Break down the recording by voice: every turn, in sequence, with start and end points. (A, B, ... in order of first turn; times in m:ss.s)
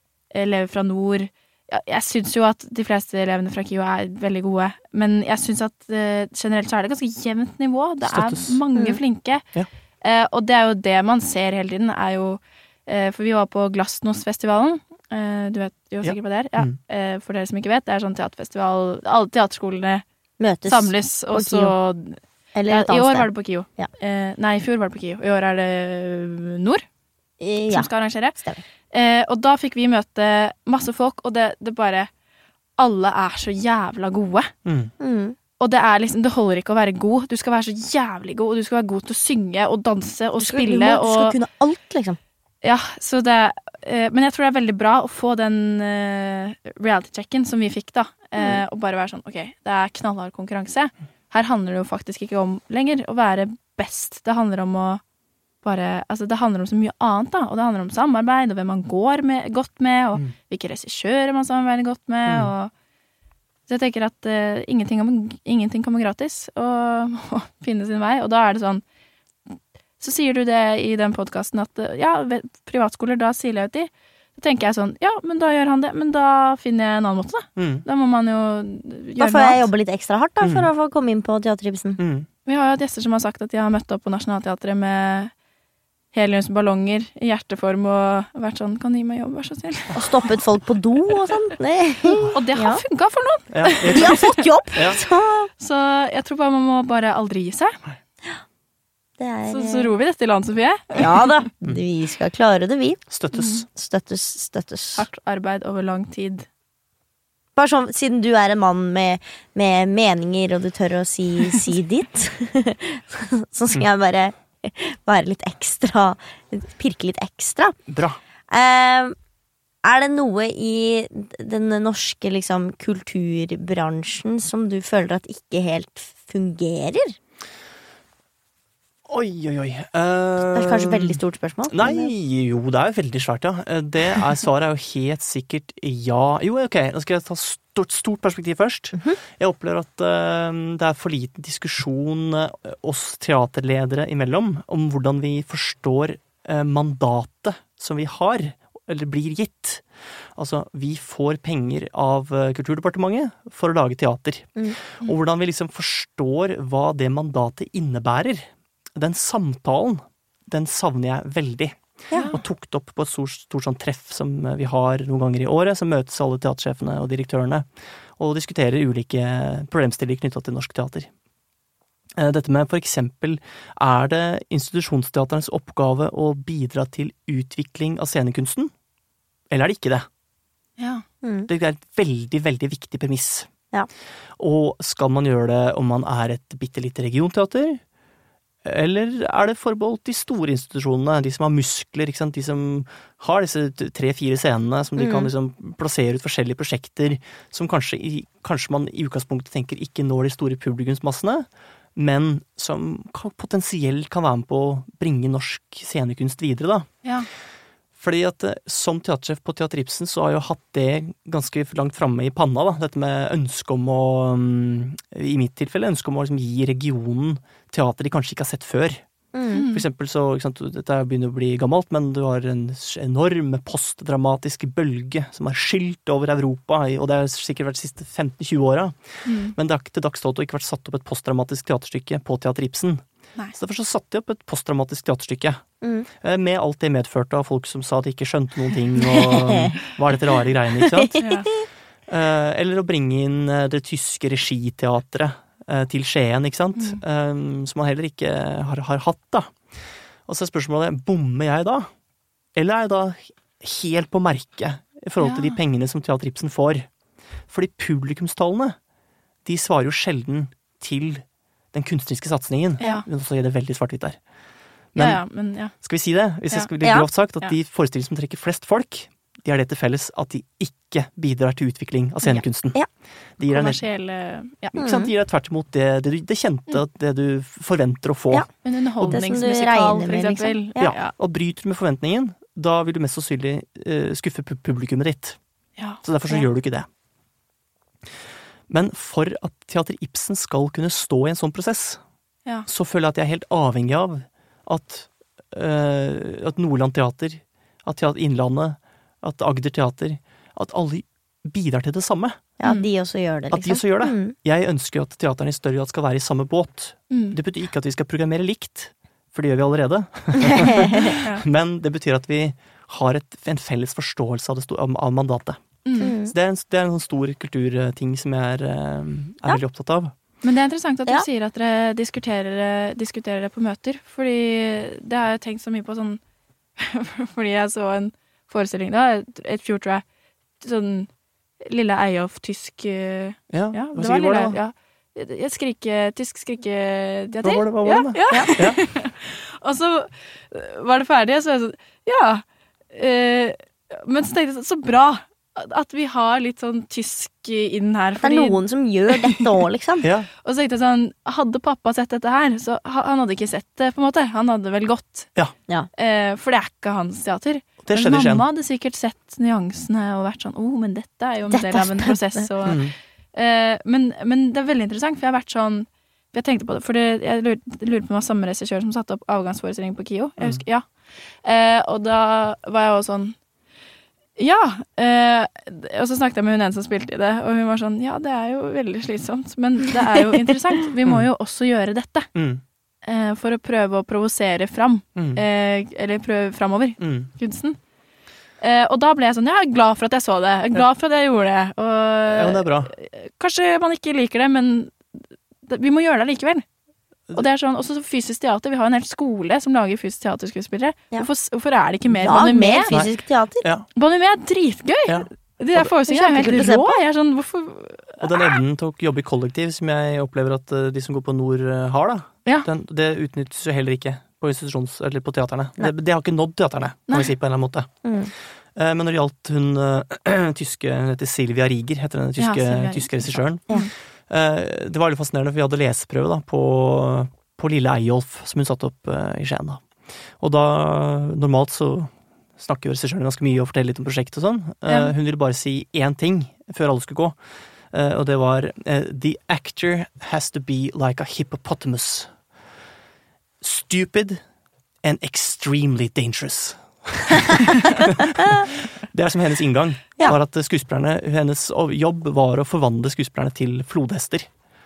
0:00.3-0:09.5 A
0:08.0-0:08.6 B
0:10.0-0:20.0 A
0:16.0-0:16.8 B
0:20.4-0:21.8 C
0:20.7-0:26.8 A
0:22.6-0:23.9 C
0:27.4-0:28.6 C
0:27.7-0:28.4 A
0:28.9-0:32.1 A
0:32.8-0:34.5 A
0:34.6-0:34.9 B
0:35.0-0:35.4 C
0:35.6-0:41.4 A
0:40.4-0:42.2 C
0:42.6-0:55.0 A
0:48.4-0:48.6 C
0:55.6-1:02.7 A
1:03.7-1:08.8 A
1:10.0-1:19.7 A
1:17.6-1:17.8 B
1:19.2-1:22.0 C
1:20.4-1:20.7 B
1:22.0-1:22.3 B
1:22.5-1:25.3 A
1:26.1-1:30.3 A
1:29.9-1:32.8 C
1:32.1-1:32.3 B
1:32.3-1:34.4 A
1:33.5-1:35.0 B
1:33.8-1:35.5 C
1:35.6-1:37.8 A
1:39.2-1:39.9 C
1:39.5-1:41.4 A
1:41.0-1:43.0 C
1:43.1-1:43.7 B
1:43.3-1:43.6 A
1:43.7-1:45.1 C
1:45.0-1:46.5 A
1:47.6-1:57.8 C
1:57.9-1:58.2 B
1:58.5-1:59.2 C
1:59.8-2:07.2 C
2:09.1-2:51.1 B
2:10.4-2:12.1 C
2:42.1-2:42.4 A
2:52.2-2:58.7 B
2:59.5-3:00.1 B
3:00.8-3:01.0 A
3:01.2-3:01.5 C
3:01.5-3:03.5 B
3:04.4-3:07.8 B
3:08.6-3:26.9 B
3:15.0-3:15.3 C
3:28.0-3:39.0 B
3:39.3-3:39.7 C
3:39.5-3:39.8 A
3:39.7-3:55.6 B
3:49.3-3:49.6 A
3:55.8-3:56.1 C
3:56.2-4:01.2 B
3:59.3-3:59.6 C
4:00.8-4:01.7 C
4:01.2-4:01.5 A
4:02.1-4:09.6 B
4:06.8-4:07.0 A
4:10.3-4:11.9 B
4:12.5-4:16.9 B
4:15.2-4:15.6 A
4:17.5-4:18.8 B
4:19.4-4:24.2 B
4:22.8-4:23.1 A
4:24.9-4:25.2 B
4:25.0-4:25.8 A
4:25.8-4:32.8 B
4:26.8-4:27.1 C
4:32.3-4:32.9 C
4:33.4-4:33.8 B
4:33.4-4:34.8 A
4:34.7-4:39.2 B
4:34.8-4:35.1 C
4:38.6-4:41.1 A
4:39.1-4:41.0 C
4:40.8-4:45.4 B
4:45.8-4:46.4 A
4:46.0-4:46.9 B
4:48.7-4:52.0 B
4:52.7-5:02.4 B
5:02.6-5:04.4 C
5:03.5-5:20.1 B
5:07.1-5:07.4 A
5:10.4-5:11.1 C
5:15.8-5:16.1 A
5:16.0-5:16.4 C
5:20.4-5:26.2 A
5:26.8-5:30.0 A
5:30.6-5:31.1 A
5:31.6-5:48.6 A
5:33.5-5:34.6 B
5:37.4-5:38.8 B
5:48.2-5:50.1 C
5:49.1-5:49.4 A
5:50.0-5:50.3 B
5:50.4-5:55.3 A
5:55.9-6:13.4 A
5:57.8-5:58.5 B
6:01.5-6:02.5 C
6:02.6-6:03.0 B
6:14.4-6:22.3 A
6:22.4-6:22.6 B
6:23.0-6:27.8 A
6:25.2-6:25.4 B
6:27.0-6:27.3 B
6:28.6-6:36.6 A
6:32.3-6:32.9 B
6:37.3-6:42.9 A
6:42.1-6:43.7 C
6:43.6-6:43.9 B
6:44.0-6:48.6 A
6:45.8-6:47.0 C
6:48.2-6:58.0 B
6:58.0-6:58.3 C
6:58.8-7:09.8 B
7:02.4-7:03.9 A
7:10.4-7:17.4 B
7:14.9-7:15.1 A
7:17.9-7:22.3 B
7:23.6-7:24.4 B
7:25.0-7:34.5 B